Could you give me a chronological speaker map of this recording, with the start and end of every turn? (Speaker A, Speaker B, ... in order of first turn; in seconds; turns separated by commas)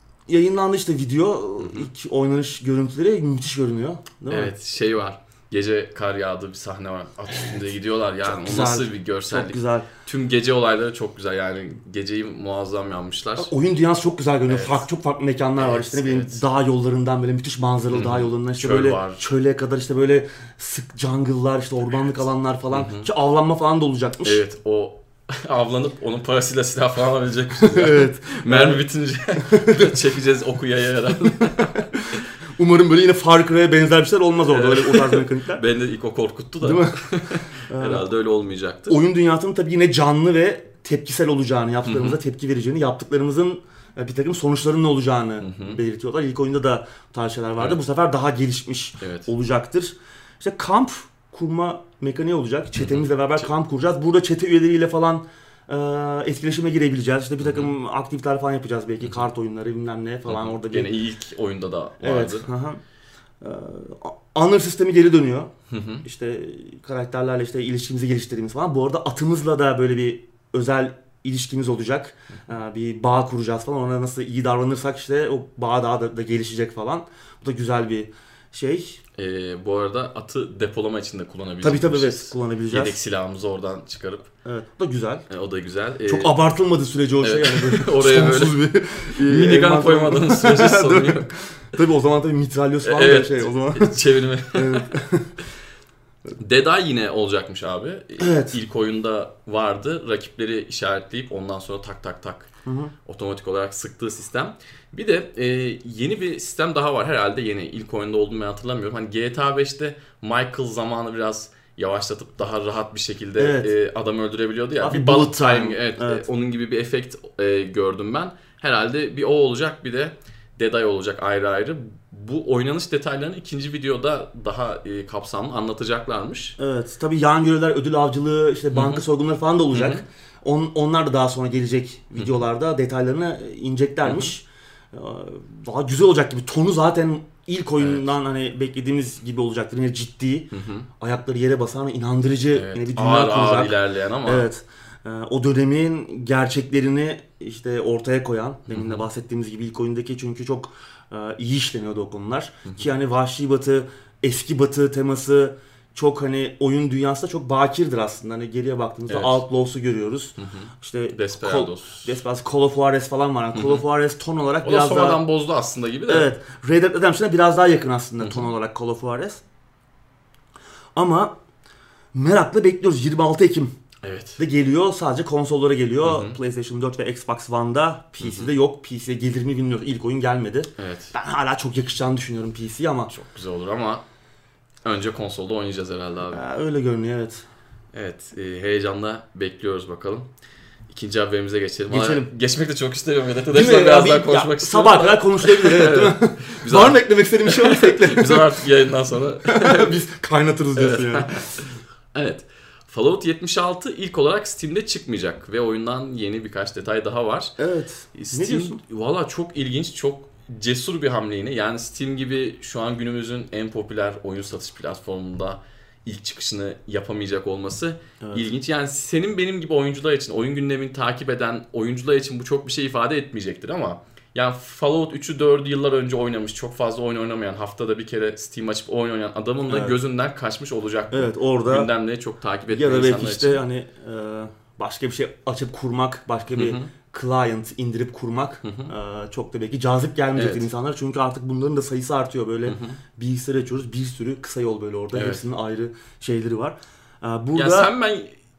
Speaker A: 0.3-4.5, Speaker B: 1.6-1.9, Speaker B: 4.3-13.5, Speaker A: 8.2-9.9, Speaker A: 13.4-24.4, Speaker B: 14.5-14.8, Speaker B: 15.6-16.4, Speaker B: 17.9-19.2, Speaker B: 22.7-23.1, Speaker B: 24.2-31.7, Speaker A: 27.5-28.8, Speaker A: 29.4-30.0, Speaker A: 31.3-35.6, Speaker B: 34.5-39.0, Speaker A: 36.6-38.1, Speaker A: 38.9-60.9, Speaker B: 41.8-42.2, Speaker B: 45.4-45.8, Speaker B: 49.0-49.3, Speaker B: 52.8-53.4, Speaker B: 57.4-57.7, Speaker B: 60.2-62.5, Speaker A: 62.0-62.8, Speaker A: 63.4-65.5, Speaker B: 65.7-66.0, Speaker A: 66.0-79.0, Speaker B: 79.2-84.3, Speaker A: 81.6-82.9, Speaker A: 84.4-85.2, Speaker B: 85.3-86.3, Speaker A: 86.0-95.3, Speaker B: 87.2-91.3, Speaker B: 92.8-95.0, Speaker B: 96.4-102.5, Speaker A: 98.2-98.6, Speaker A: 102.7-102.9, Speaker B: 103.0-126.6, Speaker A: 113.4-113.7, Speaker A: 114.8-116.2, Speaker A: 126.6-165.2, Speaker B: 128.7-129.0, Speaker B: 129.7-130.0, Speaker B: 134.0-134.3, Speaker B: 137.8-138.1, Speaker B: 140.5-140.9, Speaker B: 142.5-144.4, Speaker B: 148.7-149.1, Speaker B: 159.1-159.4, Speaker B: 160.4-162.1, Speaker B: 163.5-163.8, Speaker B: 164.6-166.3, Speaker A: 166.1-169.4, Speaker B: 168.2-168.4, Speaker A: 170.9-171.3, Speaker A: 172.1-173.7, Speaker B: 174.0-174.4, Speaker A: 174.4-183.1, Speaker B: 176.0-176.4, Speaker B: 178.2-178.5, Speaker B: 180.8-181.1, Speaker B: 183.1-184.0, Speaker B: 184.8-186.4, Speaker A: 186.3-187.4, Speaker B: 187.9-190.3, Speaker B: 190.9-200.0, Speaker A: 191.9-192.3, Speaker A: 193.5-198.6, Speaker A: 199.4-201.7, Speaker B: 200.7-207.5, Speaker A: 207.6-208.8, Speaker B: 208.1-233.6, Speaker A: 229.7-230.0, Speaker A: 231.1-231.9, Speaker A: 232.7-247.9, Speaker B: 236.5-236.9, Speaker B: 238.6-238.9, Speaker B: 240.3-240.7, Speaker B: 242.7-243.0, Speaker B: 245.1-245.4, Speaker B: 247.5-248.3